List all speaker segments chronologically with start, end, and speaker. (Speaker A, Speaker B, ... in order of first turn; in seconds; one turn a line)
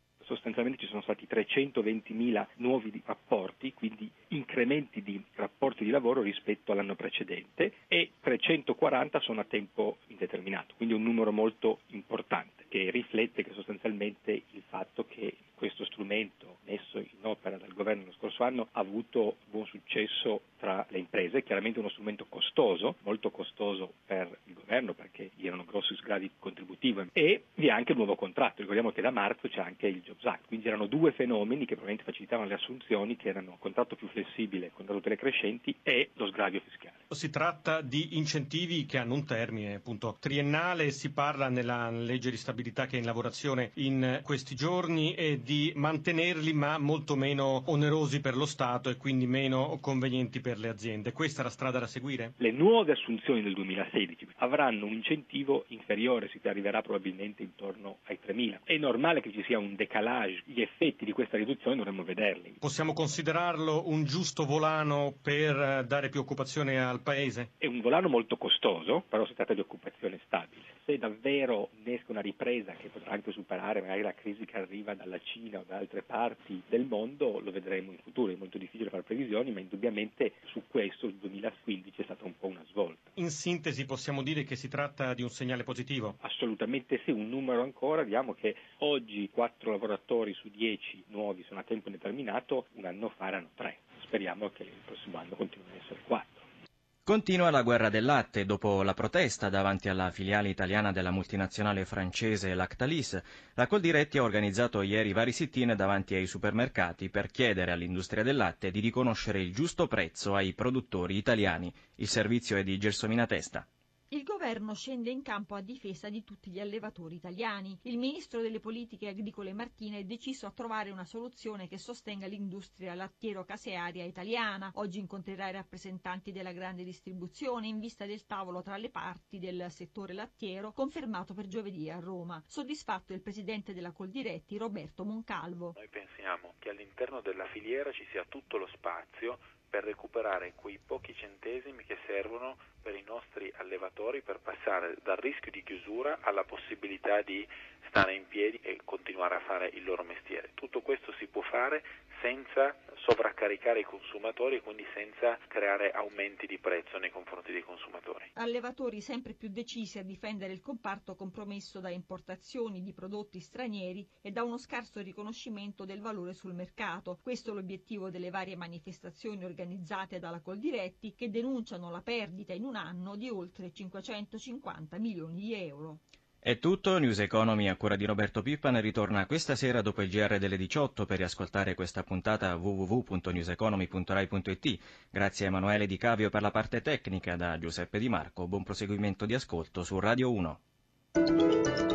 Speaker A: 0.2-37.0
Speaker B: 37.1-52.3
Speaker A: 52.4-62.6
Speaker B: 62.6-67.5
Speaker A: 67.6-83.1
Speaker B: 83.2-86.2
Speaker A: 86.2-96.4
Speaker C: 97.1-113.7
Speaker D: 114.1-135.8
Speaker E: 135.8-158.3
Speaker D: 158.4-176.0
Speaker C: 176.4-190.6